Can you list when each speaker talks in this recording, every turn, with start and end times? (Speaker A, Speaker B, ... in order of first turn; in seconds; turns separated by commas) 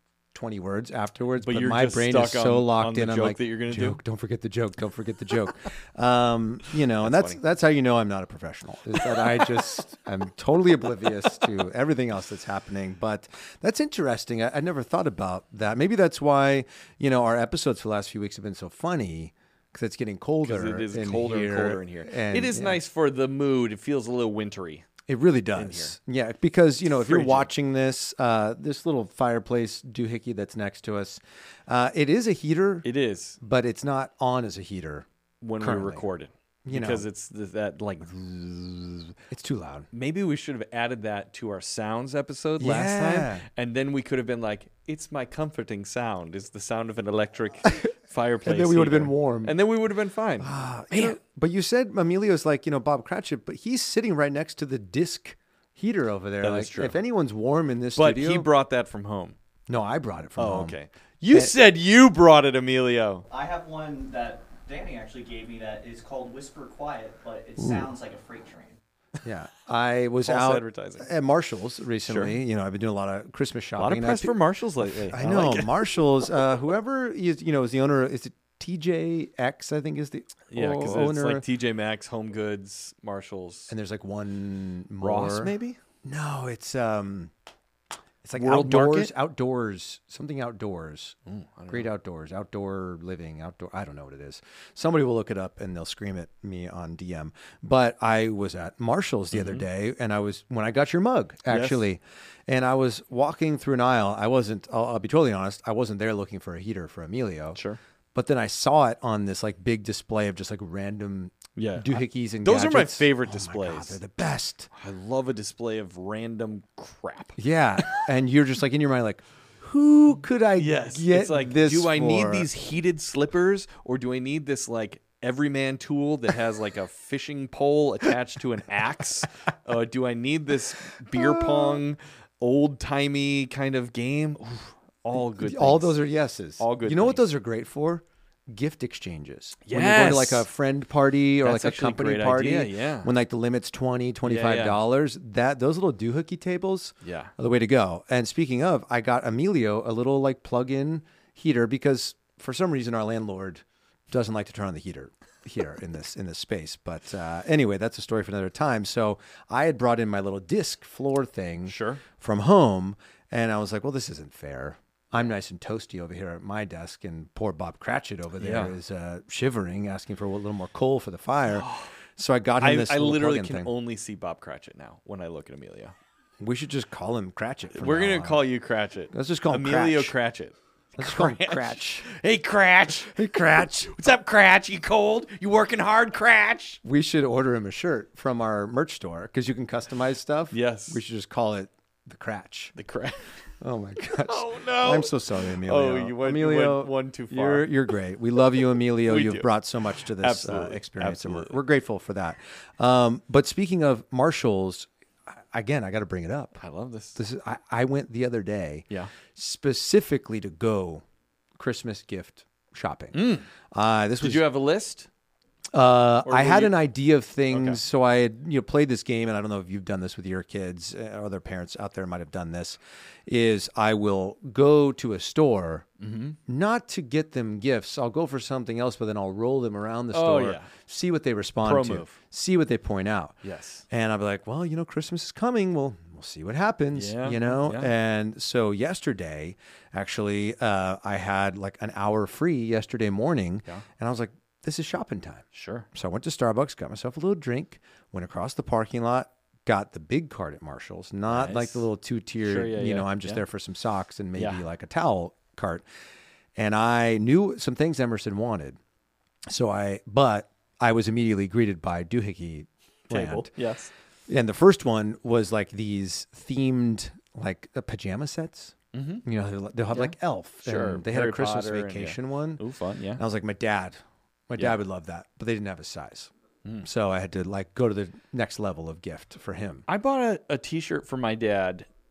Speaker A: 0.3-22.8, Speaker B: 1.4-4.0, Speaker B: 7.0-7.4, Speaker B: 9.0-9.7, Speaker B: 20.4-24.9, Speaker A: 25.1-32.9, Speaker B: 25.6-25.9, Speaker B: 26.9-27.5, Speaker B: 32.8-33.4, Speaker A: 33.4-35.1, Speaker B: 35.4-39.1, Speaker A: 35.6-36.0, Speaker A: 36.6-37.0, Speaker A: 39.3-39.9, Speaker B: 39.9-51.2, Speaker A: 42.6-43.5, Speaker A: 48.5-49.5, Speaker A: 50.4-58.5, Speaker B: 56.4-57.0, Speaker B: 58.0-59.4, Speaker A: 59.7-60.8, Speaker B: 60.4-63.3, Speaker C: 63.3-68.8, Speaker A: 69.2-81.4, Speaker B: 70.2-71.1, Speaker B: 72.0-72.4, Speaker B: 73.8-76.0, Speaker B: 80.5-83.7, Speaker A: 83.7-85.5, Speaker B: 85.0-85.8, Speaker A: 86.0-87.3, Speaker A: 88.2-91.2, Speaker B: 88.4-89.1, Speaker B: 91.3-91.9, Speaker A: 91.7-107.6, Speaker B: 99.3-99.7, Speaker B: 101.5-101.9, Speaker A: 108.1-114.7, Speaker B: 111.5-114.0, Speaker B: 114.7-118.0, Speaker A: 117.4-122.5, Speaker B: 120.6-136.0, Speaker A: 131.1-131.8, Speaker A: 135.1-173.7, Speaker B: 136.6-137.2, Speaker B: 139.6-140.5, Speaker B: 141.4-143.1, Speaker B: 144.2-144.8, Speaker B: 147.0-147.3, Speaker B: 161.7-162.0, Speaker B: 168.4-168.8, Speaker B: 171.5-171.9, Speaker B: 172.6-175.9, Speaker A: 176.4-178.4, Speaker B: 177.7-186.8, Speaker A: 179.1-180.2, Speaker A: 181.0-182.1, Speaker A: 183.1-183.9, Speaker A: 186.8-192.8, Speaker B: 190.5-191.0, Speaker B: 192.8-193.2, Speaker A: 193.6-206.6, Speaker B: 194.2-197.8, Speaker B: 198.5-201.6, Speaker B: 206.6-207.2, Speaker A: 207.2-211.0, Speaker A: 211.6-214.4, Speaker B: 213.1-213.5, Speaker B: 214.2-215.1, Speaker A: 215.7-225.9, Speaker B: 216.2-216.8, Speaker B: 217.5-217.8, Speaker B: 226.0-226.4, Speaker A: 226.5-255.8, Speaker B: 230.1-230.7, Speaker B: 231.6-232.2, Speaker B: 233.4-233.8, Speaker B: 236.9-237.9, Speaker B: 245.5-245.9, Speaker B: 251.3-251.9, Speaker B: 252.4-253.4, Speaker B: 254.4-254.6, Speaker A: 256.6-258.8, Speaker A: 259.5-263.5, Speaker B: 263.1-263.9, Speaker A: 264.3-272.6, Speaker B: 268.9-269.2, Speaker B: 269.9-273.2, Speaker A: 273.2-274.0, Speaker A: 274.5-276.3, Speaker A: 276.8-279.9, Speaker B: 279.9-281.9